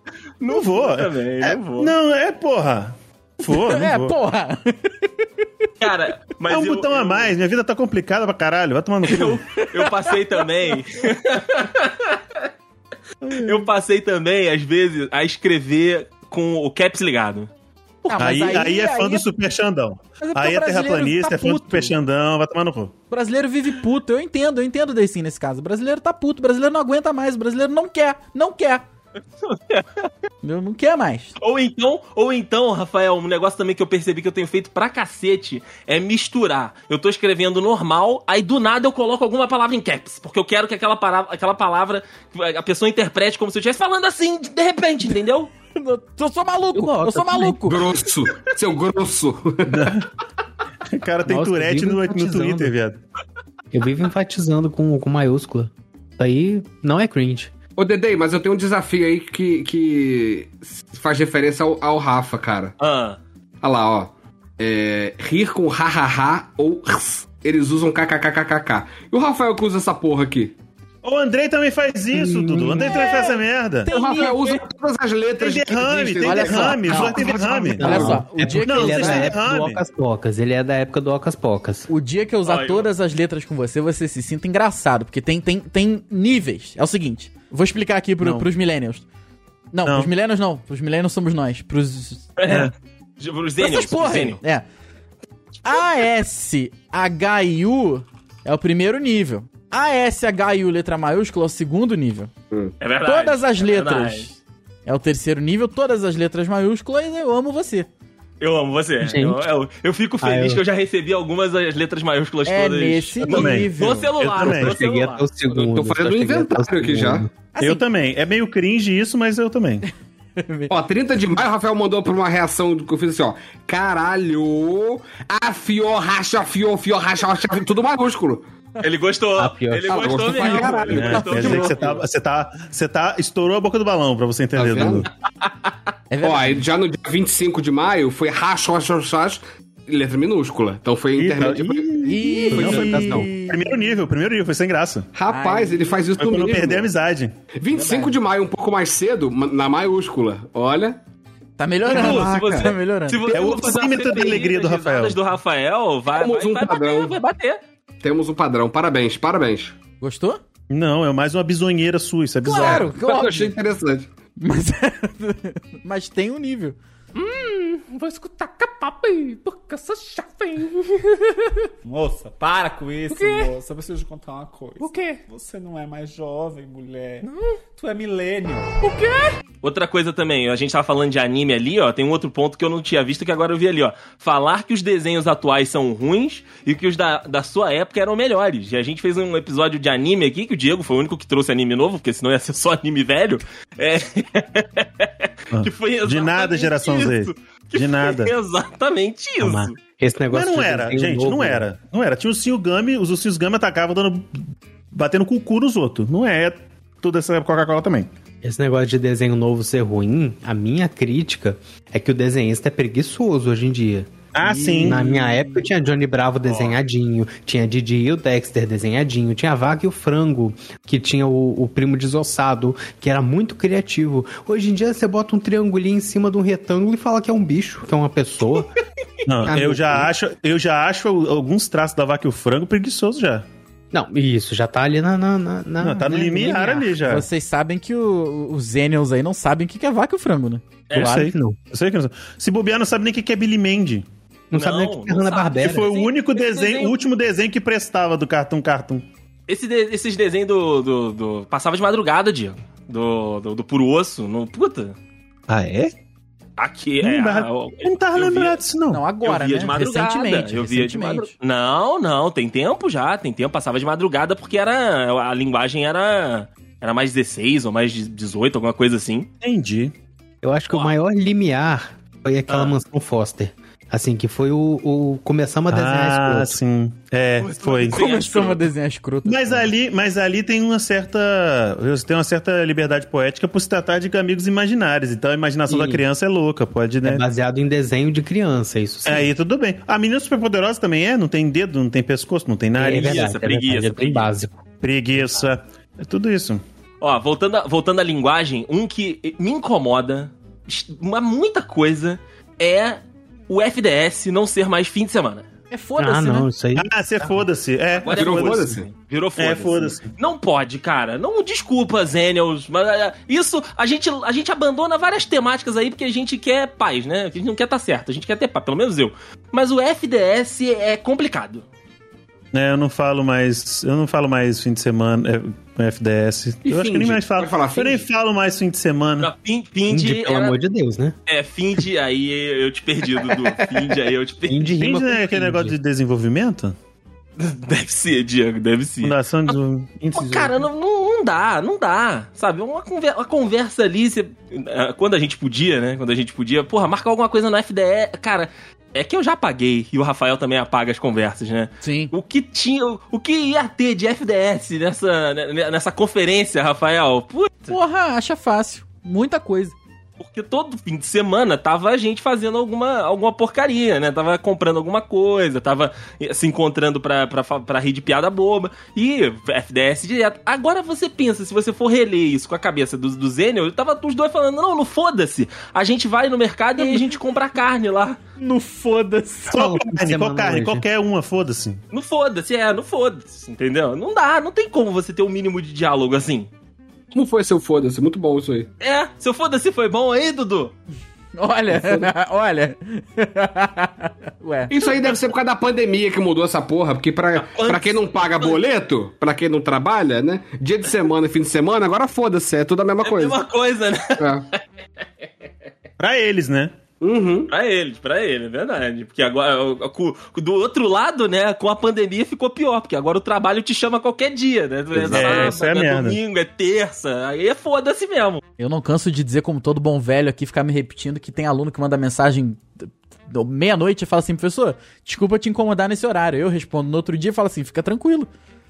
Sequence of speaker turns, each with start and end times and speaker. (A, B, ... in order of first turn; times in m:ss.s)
0:00.4-0:01.9 A
0:00.5-0:04.2 B
0:03.4-0:05.7 C
0:05.8-0:07.3 A
0:06.5-0:09.4 B
0:09.1-0:12.5 A
0:09.1-0:10.8 C
0:13.2-0:13.6 C
0:13.4-0:17.5 A
0:18.0-0:19.3 C
0:18.2-0:22.9 B
0:20.2-0:21.9 C
0:23.1-0:28.8 C
0:29.4-0:30.1 A
0:30.4-0:31.4 C
0:31.4-0:45.5 A
0:45.8-0:47.8 C
0:46.7-0:47.6 D
0:47.6-0:50.0 E
0:49.7-0:50.1 B
0:50.9-0:53.0 B
0:51.2-0:52.7 D
0:53.7-0:57.5 D
0:57.8-1:02.8 E
1:02.8-1:03.2 A
1:03.6-1:10.6 E
1:11.0-1:13.9 B
1:12.1-1:13.0 D
1:12.9-1:14.6 C
1:13.9-1:18.3 E
1:15.4-1:19.8 B
1:16.2-1:17.2 C
1:17.6-1:21.9 D
1:17.8-1:19.4 C
1:21.9-1:29.0 C
1:22.4-1:22.9 A
1:28.2-1:28.5 B
1:29.7-1:32.6 C
1:29.8-1:30.1 B
1:32.4-1:34.4 A
1:33.6-1:34.6 C
1:35.6-1:42.3 C
1:42.8-1:44.3 A
1:43.0-1:44.4 C
1:44.9-1:47.9 C
1:48.4-1:55.3 A
1:49.0-1:49.5 D
1:50.2-1:50.6 D
1:52.4-1:54.1 C
1:53.2-1:54.8 B
1:54.4-1:57.3 D
1:55.5-1:57.3 E
1:57.6-1:57.8 C
1:57.6-1:59.8 B
2:00.4-2:00.7 C
2:00.7-2:08.4 E
2:08.8-2:12.0 A
2:09.4-2:10.2 D
2:09.9-2:11.6 E
2:10.4-2:11.8 C
2:10.9-2:15.1 B
2:14.6-2:15.1 E
2:16.1-2:16.6 C
2:16.2-2:23.0 E
2:21.2-2:25.1 B
2:22.0-2:23.8 C
2:22.5-2:23.3 D
2:25.1-2:26.9 E
2:25.3-2:26.0 C
2:26.2-2:27.4 B
2:27.6-2:31.0 E
2:27.7-2:28.2 C
2:31.6-2:33.2 C
2:31.8-2:32.3 B
2:31.9-2:37.6 A
2:33.3-2:35.2 B
2:36.1-2:37.1 E
2:38.0-2:39.8 E
2:40.0-2:40.4 C
2:40.7-2:42.9 B
2:42.4-2:43.6 C
2:42.5-2:44.1 E
2:44.4-2:46.8 C
2:47.1-2:51.7 F
2:51.8-2:58.8 G
2:53.1-2:53.5 F
2:54.8-2:55.2 F
2:57.2-2:57.6 F
2:58.8-2:59.4 F
2:59.6-3:19.8 A
3:15.5-3:18.3 B
3:19.4-3:21.6 D
3:20.3-3:24.4 B
3:24.9-3:28.1 B
3:28.4-3:34.2 D
3:34.3-3:35.1 B
3:34.5-3:35.3 C
3:34.8-3:48.7 D
3:36.4-3:36.8 A
3:49.3-3:53.4 B
3:49.4-3:50.1 D
3:53.9-3:57.0 D
3:55.8-3:57.3 B
3:57.0-4:00.6 C
4:00.9-4:01.2 A
4:00.9-4:04.1 B
4:01.0-4:01.6 D
4:04.5-4:05.9 D
4:04.5-4:06.9 A
4:05.6-4:09.0 B
4:09.5-4:15.0 A
4:15.5-4:15.9 B
4:16.6-4:18.6 A
4:17.0-4:19.0 B
4:18.9-4:21.3 C
4:19.2-4:29.3 A
4:29.4-4:29.9 B
4:30.4-4:36.6 D
4:32.5-4:32.7 A
4:35.7-4:38.0 B
4:37.4-4:38.6 A
4:37.9-4:39.7 C
4:39.3-4:47.2 B
4:45.7-4:46.0 D
4:47.0-4:49.3 D
4:49.1-4:53.4 B
4:52.8-4:54.6 D
4:52.9-4:54.3 A
4:54.8-4:56.6 B
4:57.0-5:05.5 A
5:05.7-5:06.5 C
5:06.0-5:07.4 D
5:06.8-5:08.8 B
5:08.0-5:21.6 A
5:08.1-5:08.9 E
5:09.4-5:10.1 B
5:22.5-5:29.3 B
5:26.6-5:28.1 E
5:29.2-5:30.6 A
5:29.9-5:31.1 D
5:31.3-5:34.7 A
5:33.3-5:33.8 D
5:34.5-5:35.8 D
5:34.8-5:36.8 B
5:37.4-5:39.6 A
5:39.0-5:40.5 B
5:40.1-5:57.8 A
5:51.8-5:52.1 C
5:57.7-5:59.8 C
6:00.2-6:18.2 A
6:16.8-6:17.1 C
6:18.4-6:19.6 C
6:19.5-6:20.8 D
6:19.5-6:21.8 B
6:21.9-6:26.5 A
6:27.1-6:28.7 E
6:28.8-6:30.8 A
6:31.4-6:34.7 C
6:31.7-6:32.1 E
6:34.7-6:43.4 E
6:37.4-6:38.6 A
6:43.0-6:44.6 A
6:44.2-6:44.4 E
6:46.0-6:46.7 B
6:47.0-6:47.5 E
6:47.5-6:58.4 A
6:54.9-6:55.6 E
6:55.1-6:56.2 B
6:58.6-7:08.3 C